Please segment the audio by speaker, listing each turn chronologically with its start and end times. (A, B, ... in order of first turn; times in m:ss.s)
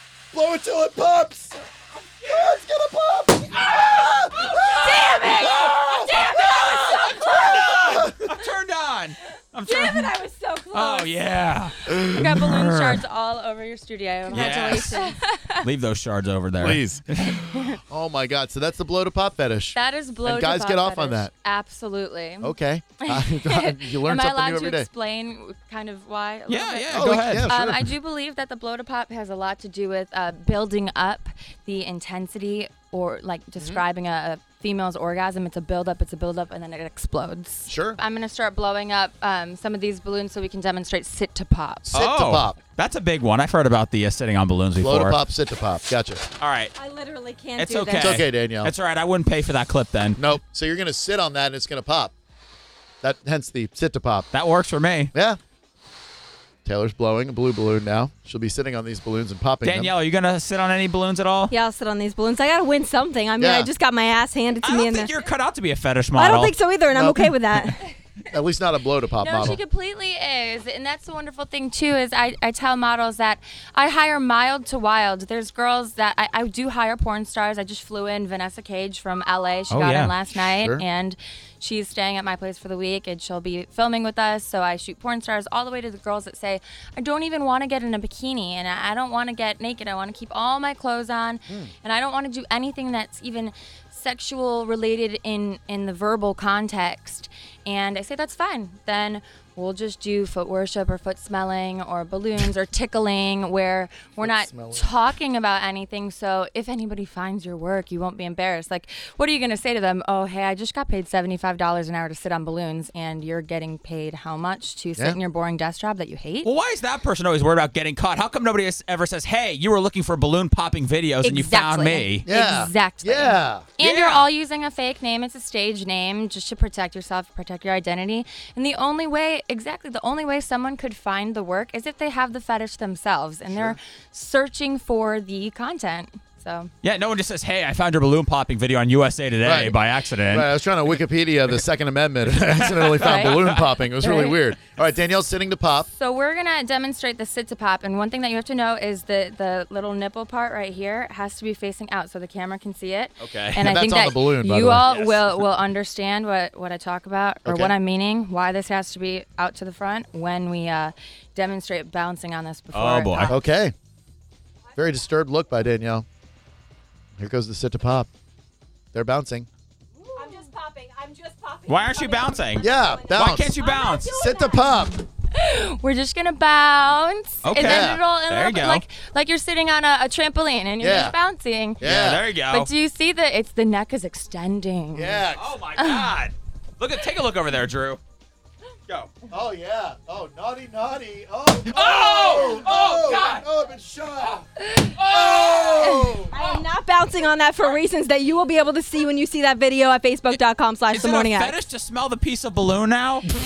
0:00.3-0:01.6 A
0:02.2-0:02.5 B
0:02.2-0:05.0 A
0:03.6-0:10.1 B
0:05.0-0:05.6 C
0:05.0-0:05.5 D
0:07.3-0:08.3 A
0:09.7-0:11.1 D
0:10.7-0:13.0 B
0:12.0-0:15.6 C
0:14.3-0:15.2 D
0:14.3-0:15.0 B
0:15.6-0:17.5 B
0:16.6-0:17.0 A
0:17.6-0:21.3 A
0:19.8-0:41.9 C
0:22.4-0:24.9 A
0:26.5-0:27.5 B
0:26.9-0:27.9 A
0:37.7-0:38.0 A
0:41.8-0:42.6 A
0:41.9-0:45.2 B
0:44.8-0:46.2 A
0:46.4-0:46.7 B
0:46.8-0:48.2 D
0:47.6-0:50.2 B
0:48.0-0:48.7 A
0:50.2-0:52.1 A
0:53.0-0:54.3 A
0:54.3-0:55.1 B
0:55.1-0:55.4 A
0:56.6-0:59.9 A
0:59.6-1:01.5 B
1:01.5-1:05.1 D
1:03.4-1:03.7 A
1:04.6-1:06.6 B
1:06.2-1:07.8 D
1:06.9-1:07.8 A
1:08.3-1:09.6 A
1:09.2-1:56.5 C
1:19.7-1:20.1 B
1:20.6-1:20.8 A
1:44.2-1:44.9 A
1:56.4-2:02.3 B
2:01.2-2:16.7 C
2:02.3-2:03.6 A
2:03.8-2:04.3 B
2:13.5-2:13.8 A
2:16.8-2:20.5 B
2:19.4-2:19.8 A
2:20.3-2:25.9 A
2:22.7-2:23.6 B
2:22.9-2:23.3 C
2:24.0-2:24.4 C
2:25.9-2:43.4 C
2:33.2-2:33.6 B
2:33.6-2:34.8 A
2:34.8-2:35.4 B
2:37.4-2:37.7 A
2:42.7-2:43.4 B
2:43.3-2:43.7 A
2:44.7-2:45.1 D
2:44.8-2:46.1 A
2:47.2-2:48.1 A
2:48.9-2:49.5 A
2:50.1-2:54.8 D
2:51.7-2:54.2 B
2:52.6-2:53.5 A
2:54.1-2:55.0 A
2:55.3-3:01.8 C
2:57.4-2:58.8 B
2:57.5-2:58.0 A
3:00.8-3:01.2 A
3:01.8-3:02.2 A
3:01.8-3:02.7 B
3:02.5-3:05.2 C
3:05.0-3:05.5 A
3:05.4-3:08.0 B
3:05.8-3:06.1 C
3:09.3-3:14.4 A
3:11.7-3:13.4 B
3:15.0-3:16.6 B
3:15.1-3:16.3 A
3:15.8-3:16.2 C
3:16.3-3:21.5 D
3:20.3-3:23.3 B